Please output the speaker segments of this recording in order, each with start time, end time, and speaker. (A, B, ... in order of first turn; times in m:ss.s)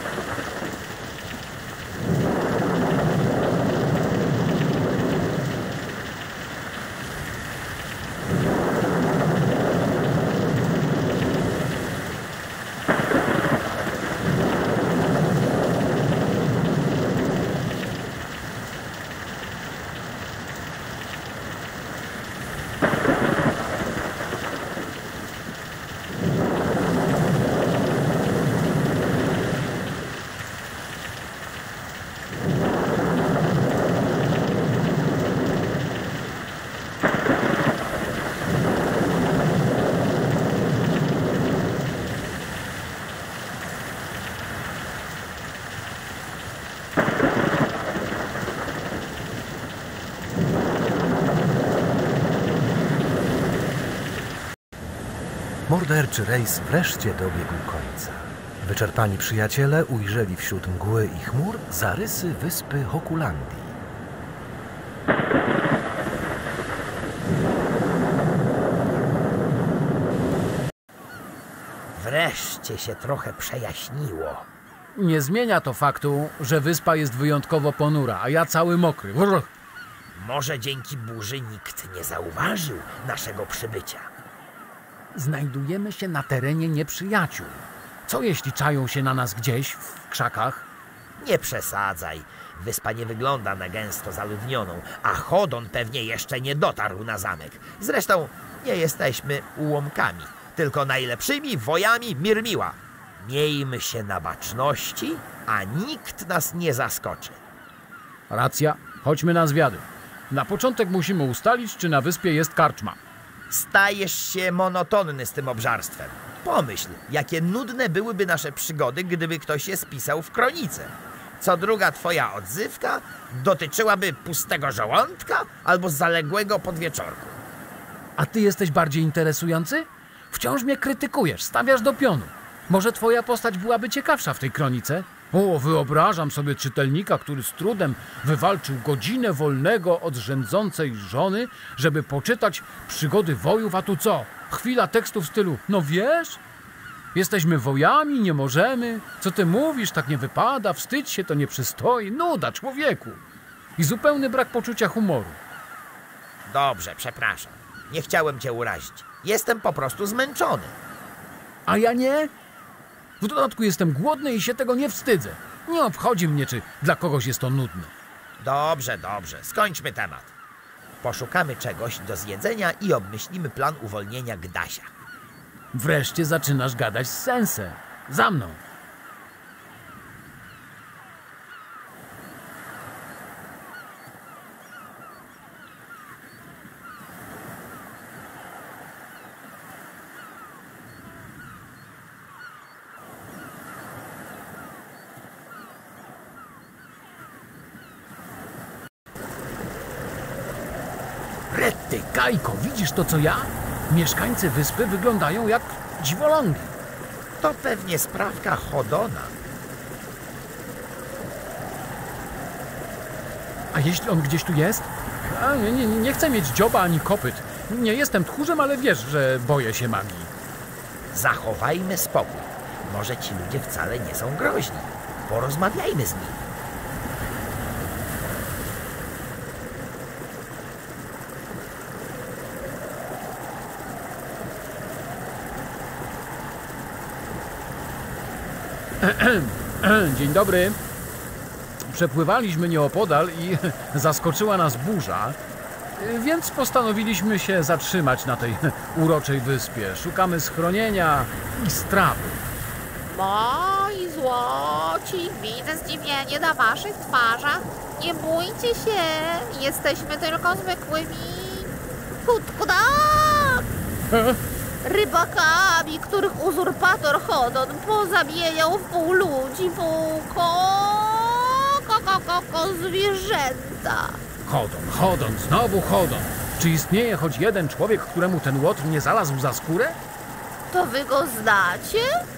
0:55.7-1:03.8 A
1:12.0-1:14.5 B
1:15.0-1:19.5 C
1:20.1-1:24.1 B
1:25.1-1:30.6 C
1:31.2-1:47.4 B
1:48.3-1:53.0 C
1:53.5-2:07.4 B
2:08.2-2:26.4 C
2:27.1-2:33.2 C
2:33.8-2:35.4 C
2:36.5-2:40.8 B
2:41.7-2:42.3 C
2:43.2-2:47.9 C
2:48.4-2:50.3 B
2:51.0-2:54.9 B
2:55.7-2:58.6 C
3:21.5-3:26.7 C
3:27.4-3:29.3 B
3:33.7-3:40.3 C
3:41.1-3:46.5 B
3:59.0-4:00.8 C
4:01.9-4:05.4 C
4:06.0-4:12.4 C
4:13.0-4:21.7 D
4:22.2-4:23.6 D
4:24.1-4:24.4 C
4:24.8-4:34.2 D
4:34.4-4:40.0 C
4:40.7-4:42.1 D